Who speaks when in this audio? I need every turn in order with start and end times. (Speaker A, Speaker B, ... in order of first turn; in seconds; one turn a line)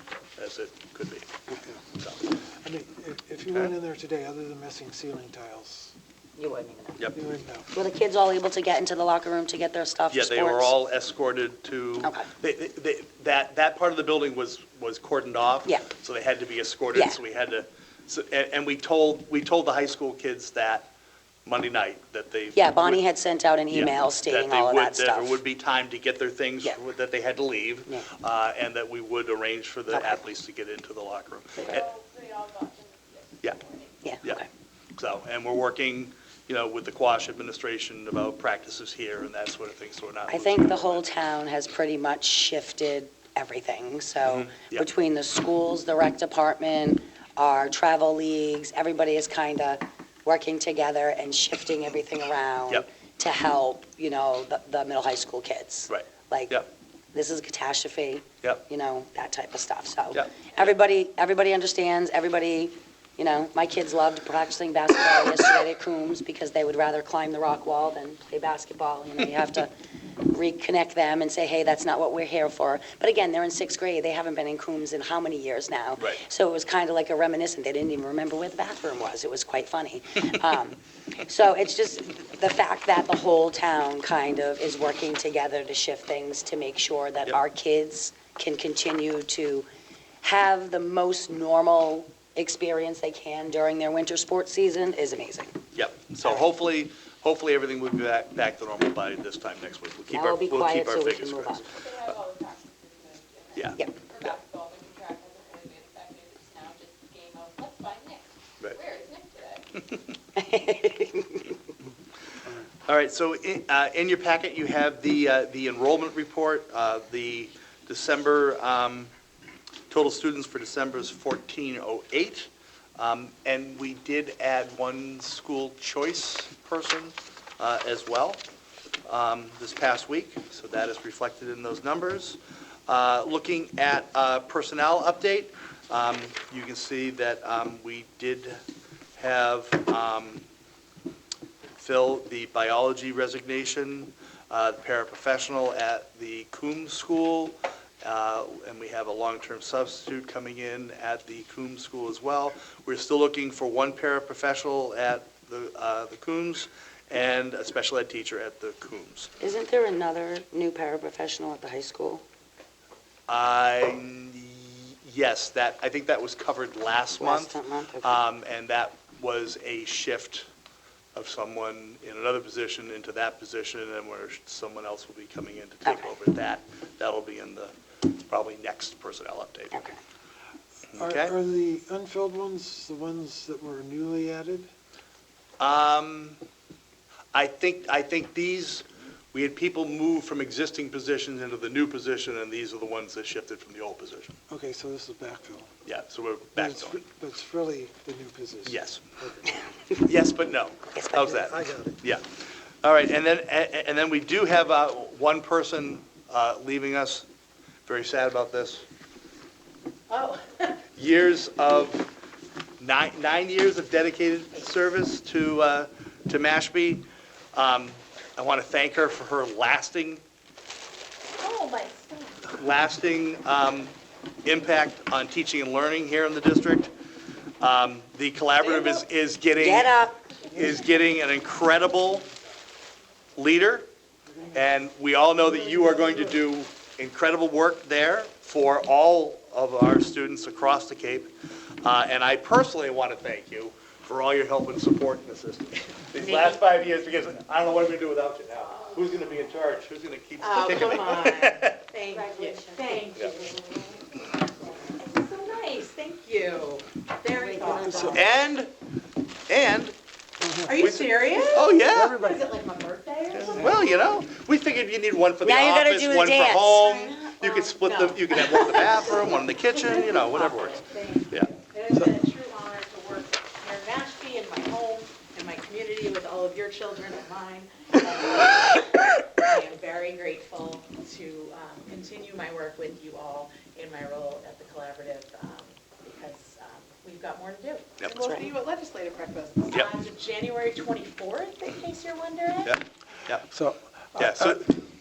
Speaker A: 0.4-1.3
Speaker A: 2.0-2.3
Speaker B: 2.6-5.9
Speaker C: 6.4-7.0
Speaker B: 7.1-7.7
Speaker C: 7.7-10.7
Speaker A: 10.1-20.9
Speaker C: 12.0-12.3
Speaker A: 21.4-23.0
Speaker C: 22.5-25.4
Speaker A: 23.7-31.9
Speaker C: 29.9-30.2
Speaker D: 31.6-33.9
Speaker C: 34.0-34.5
Speaker A: 35.0-41.1
Speaker C: 40.3-56.6
Speaker A: 44.3-44.9
Speaker A: 55.9-56.7
Speaker C: 57.1-89.7
Speaker A: 60.1-60.7
Speaker C: 90.2-95.6
Speaker A: 95.7-101.8
Speaker C: 100.1-101.8
Speaker D: 101.7-109.7
Speaker A: 103.5-103.8
Speaker C: 110.3-111.6
Speaker A: 112.8-119.1
Speaker A: 119.9-128.4
Speaker A: 129.1-138.6
Speaker A: 139.2-140.4
Speaker A: 141.8-159.3
Speaker C: 159.4-162.2
Speaker A: 163.3-170.5
Speaker C: 167.2-168.2
Speaker A: 171.1-179.8
Speaker C: 175.8-176.1
Speaker C: 179.7-180.0
Speaker A: 180.9-181.3
Speaker B: 180.9-184.7
Speaker A: 185.6-186.4
Speaker A: 187.3-194.3
Speaker B: 194.5-195.7
Speaker A: 195.8-197.0
Speaker B: 196.6-199.6
Speaker A: 198.6-199.0
Speaker A: 200.0-202.2
Speaker C: 200.9-201.5
Speaker B: 201.4-202.0
Speaker A: 202.8-207.3
Speaker A: 207.8-208.9
Speaker E: 210.1-210.7
Speaker A: 210.9-212.1
Speaker A: 212.8-220.2
Speaker E: 221.3-222.5
Speaker A: 222.5-223.9
Speaker A: 224.4-226.9
Speaker A: 227.6-229.9
Speaker E: 228.6-229.0
Speaker C: 229.6-230.2
Speaker A: 230.4-232.2
Speaker A: 233.4-233.9
Speaker A: 234.5-241.3
Speaker A: 241.8-251.8
Speaker E: 250.4-258.2
Speaker C: 252.1-253.4
Speaker C: 257.2-258.2
Speaker B: 257.8-258.2
Speaker A: 258.0-258.7
Speaker A: 259.5-259.9
Speaker B: 260.4-260.7
Speaker E: 260.6-263.9
Speaker A: 260.7-262.2
Speaker B: 261.8-262.4
Speaker A: 263.3-270.8
Speaker C: 265.4-266.9
Speaker E: 266.8-292.8
Speaker C: 288.2-288.5
Speaker A: 292.6-293.5
Speaker B: 293.5-294.7
Speaker A: 294.1-294.7